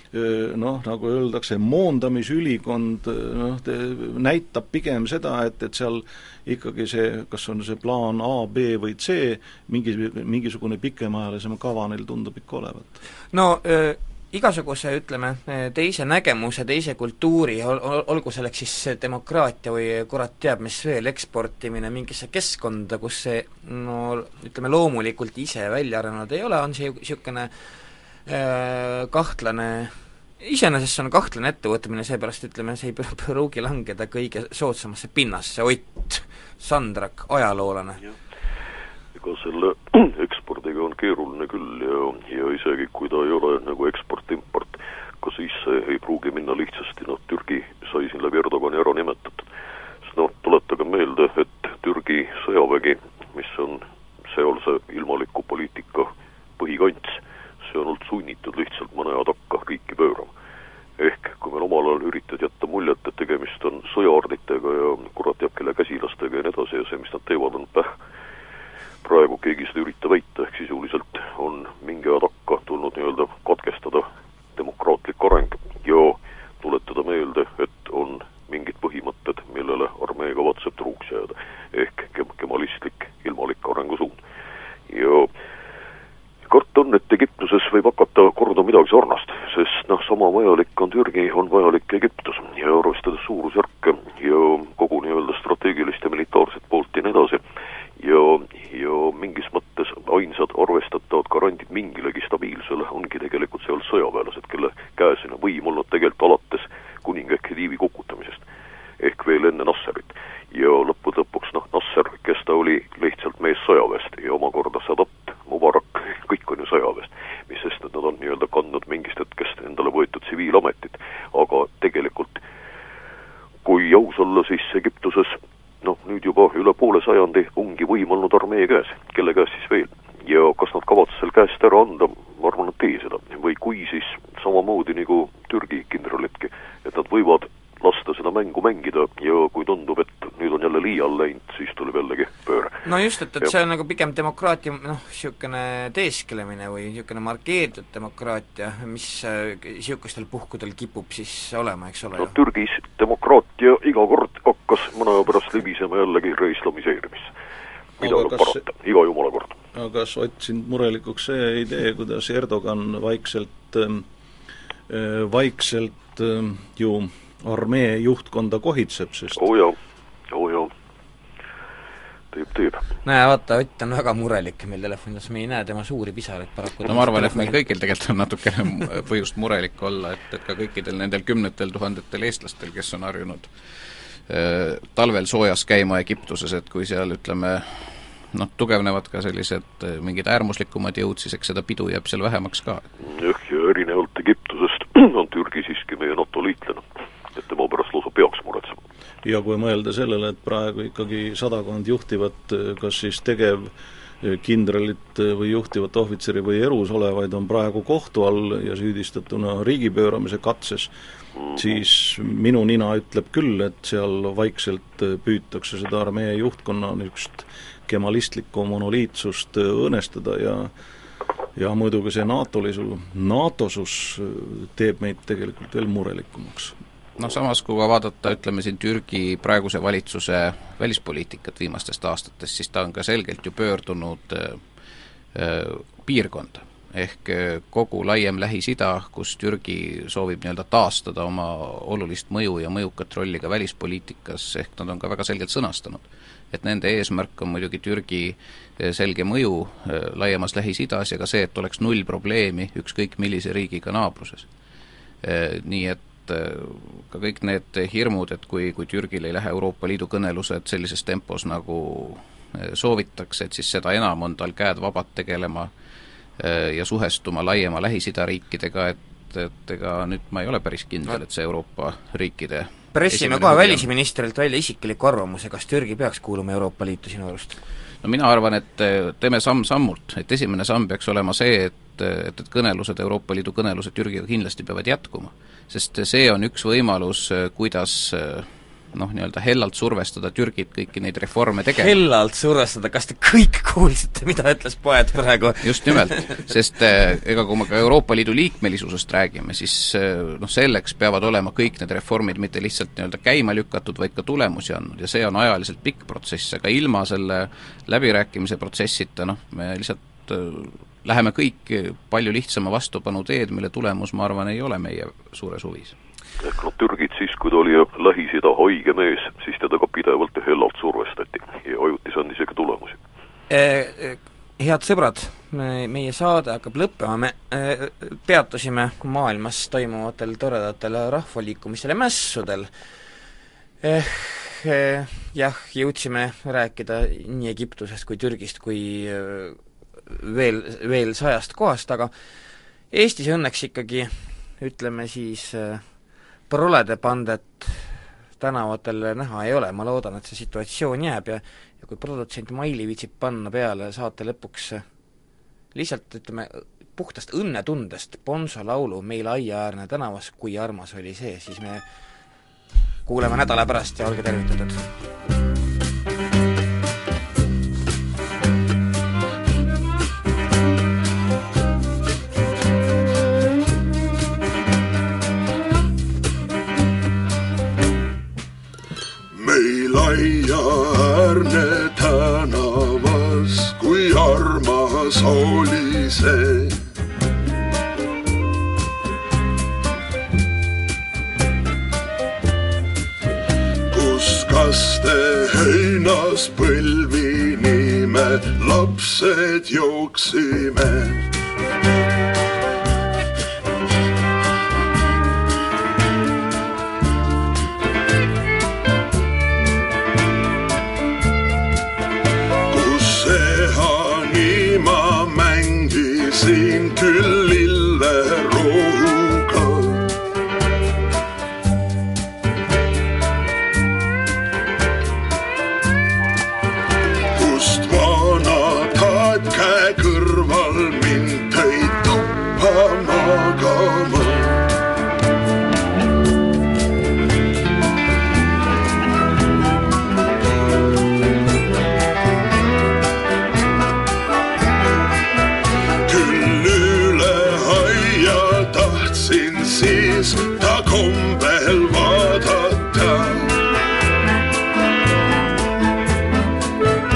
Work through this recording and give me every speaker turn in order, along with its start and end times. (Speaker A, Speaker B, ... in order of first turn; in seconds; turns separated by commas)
Speaker A: 0.1-13.0, Speaker B: 13.3-27.5, Speaker B: 28.3-38.0, Speaker C: 39.1-49.5, Speaker C: 50.0-60.3, Speaker C: 61.0-68.0, Speaker C: 69.0-84.2, Speaker C: 84.9-85.3, Speaker C: 86.5-97.4, Speaker C: 98.0-108.4, Speaker C: 109.0-122.4, Speaker C: 123.7-142.8, Speaker B: 142.8-152.4, Speaker C: 152.2-157.3, Speaker C: 158.0-159.6, Speaker A: 158.0-158.6, Speaker A: 159.7-164.1, Speaker A: 164.9-169.5, Speaker C: 169.4-169.8, Speaker C: 170.3-170.7, Speaker C: 172.3-172.9, Speaker B: 173.1-177.6, Speaker D: 176.8-183.5, Speaker D: 184.3-192.9, Speaker C: 193.0-198.8, Speaker A: 199.2-210.9, Speaker A: 211.5-220.7, Speaker A: 221.6-226.8, Speaker D: 227.2-234.6, Speaker D: 235.3-254.5, Speaker D: 255.2-265.7, Speaker D: 266.4-273.9, Speaker B: 272.9-277.6, Speaker D: 278.0-291.9, Speaker B: 291.8-296.5, Speaker D: 295.6-315.9, Speaker C: 316.4-323.0, Speaker B: 323.5-332.7, Speaker B: 333.8-342.1, Speaker B: 342.9-345.8, Speaker B: 346.5-354.8, Speaker B: 355.7-361.8, Speaker B: 363.1-364.8, Speaker E: 379.3-386.8, Speaker E: 393.9-401.3, Speaker E: 412.7-420.1, Speaker E: 427.4-434.6, Speaker E: 446.1-453.6